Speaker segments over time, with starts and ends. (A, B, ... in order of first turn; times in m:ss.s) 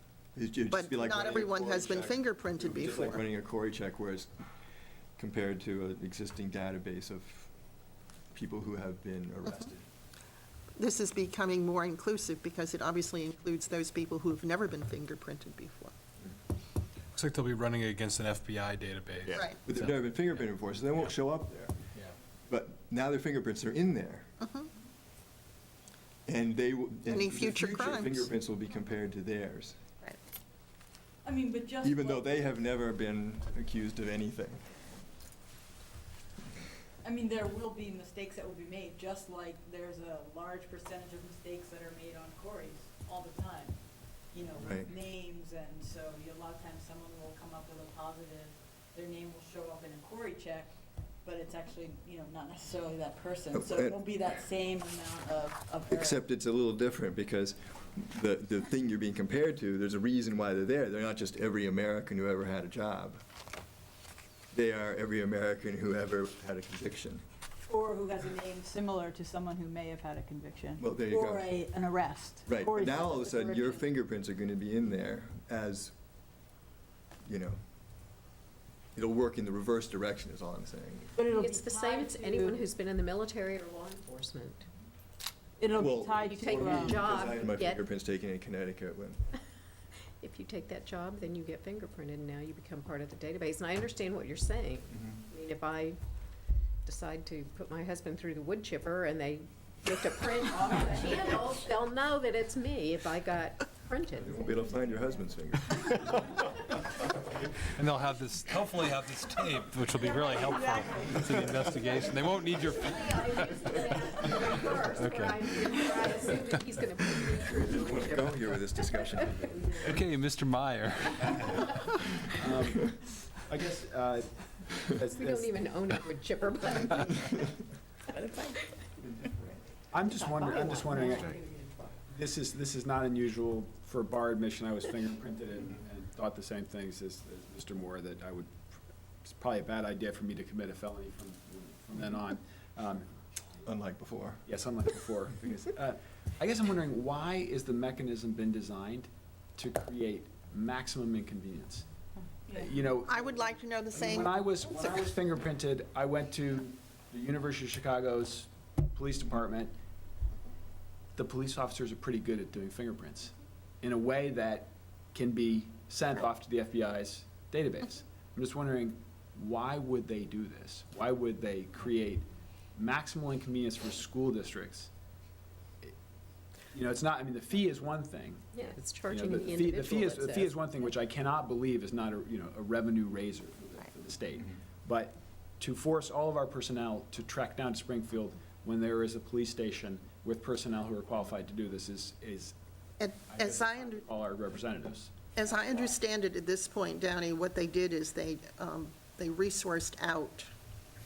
0:00.4-0:04.3 A
0:00.7-0:03.2 B
0:05.2-0:07.5 A
0:08.3-0:09.8 A
0:10.8-0:15.9 B
0:17.1-0:20.0 C
0:19.3-0:19.6 B
0:19.6-0:21.7 A
0:22.5-0:24.3 A
0:24.4-0:24.7 B
0:26.3-0:29.8 A
0:27.1-0:28.2 B
0:31.2-0:32.4 D
0:31.8-0:34.7 A
0:37.0-0:56.2 D
0:44.6-0:44.9 A
0:53.5-0:54.0 A
0:55.9-1:03.2 A
1:04.5-1:07.2 A
1:07.6-1:13.8 D
1:10.8-1:11.5 A
1:12.5-1:15.9 A
1:17.3-1:17.6 A
1:19.0-1:21.1 A
1:21.2-1:22.6 D
1:21.3-1:24.7 E
1:25.6-1:27.1 D
1:25.8-1:29.2 A
1:26.2-1:27.8 E
1:30.2-1:36.0 E
1:36.8-1:45.1 E
1:44.2-1:46.3 A
1:47.8-1:55.5 C
1:50.0-1:52.5 D
1:52.6-1:59.8 E
1:56.3-1:56.6 C
1:57.7-1:59.6 A
1:59.8-2:01.7 C
2:02.3-2:05.6 F
2:05.1-2:07.5 E
2:08.1-2:08.9 E
2:09.9-2:11.4 F
2:10.0-2:12.0 E
2:12.1-2:18.6 F
2:19.2-2:23.1 F
2:23.6-2:24.4 A
2:24.4-2:39.7 F
2:32.2-2:32.7 D
2:33.0-2:35.1 B
2:41.2-2:54.9 F
2:56.7-3:12.6 F
2:58.5-3:00.5 E
3:13.0-3:14.0 B
3:13.3-3:15.1 F
3:15.4-3:20.5 B